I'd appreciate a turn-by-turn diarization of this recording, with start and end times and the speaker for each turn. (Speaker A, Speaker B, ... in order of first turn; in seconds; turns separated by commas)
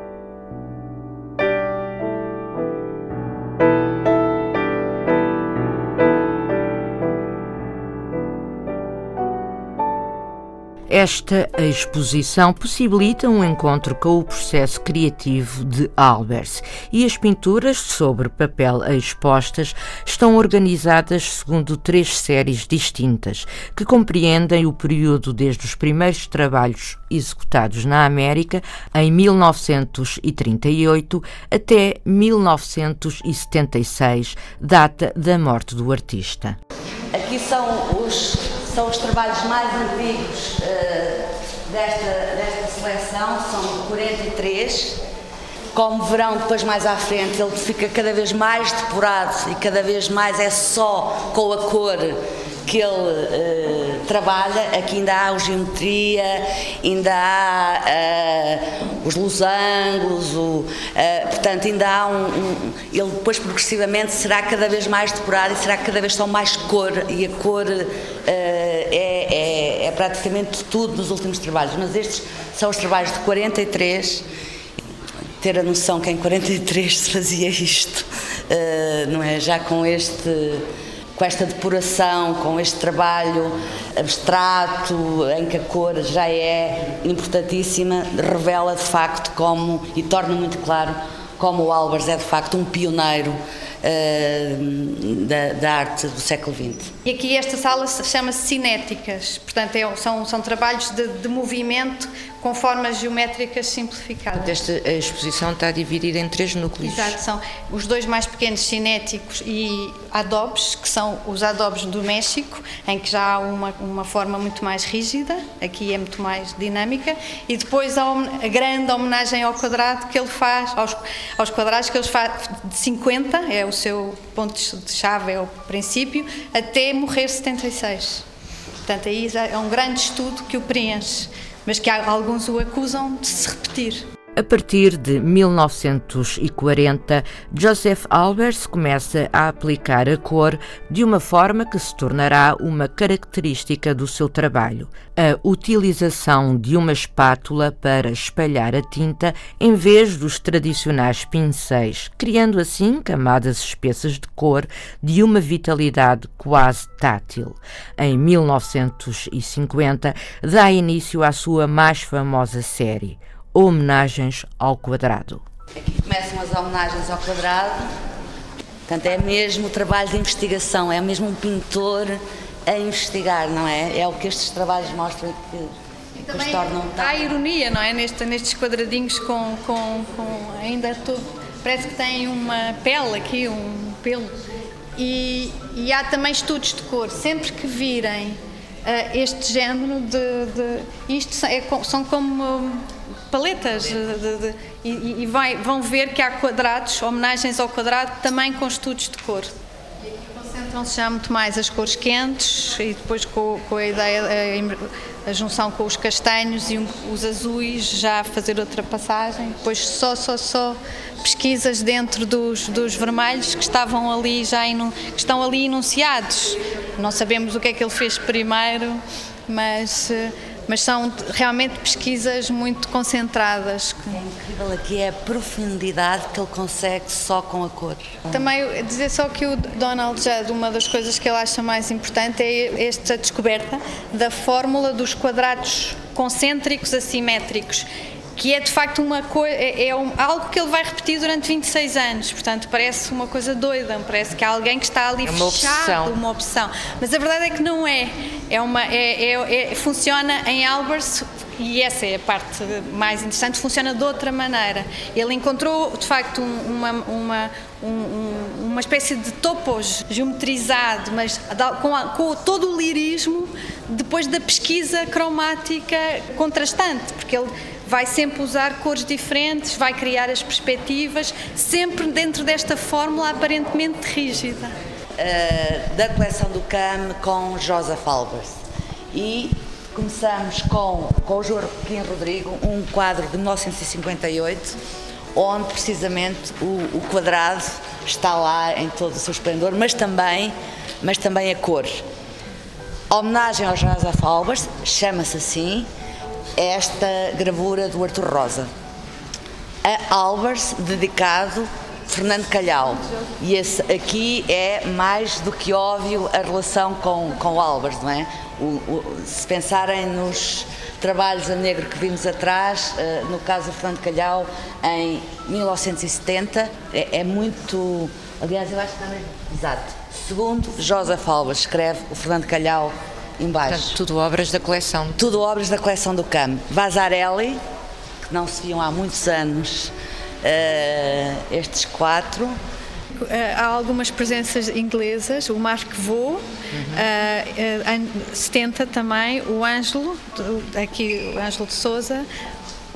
Speaker A: 10.9-36.6, Speaker B: 37.1-45.0, Speaker B: 45.7-74.2, Speaker B: 75.4-80.6, Speaker B: 81.2-96.9, Speaker C: 97.0-104.5, Speaker A: 104.4-107.2, Speaker C: 106.8-128.2, Speaker C: 128.8-134.0, Speaker A: 134.4-165.4, Speaker B: 165.8-167.9, Speaker B: 168.9-175.7, Speaker C: 176.2-184.4, Speaker B: 176.3-177.3, Speaker C: 185.0-199.5, Speaker C: 200.2-224.2, Speaker B: 224.1-228.2, Speaker C: 228.3-274.7, Speaker A: 245.2-246.2, Speaker B: 275.2-278.6, Speaker B: 279.1-284.8, Speaker B: 285.4-292.0, Speaker B: 293.1-295.9, Speaker B: 296.6-298.7, Speaker B: 299.8-324.0, Speaker A: 323.7-325.2, Speaker B: 325.2-327.6, Speaker B: 328.2-329.9, Speaker B: 330.4-332.6, Speaker C: 333.1-342.3, Speaker A: 336.7-337.0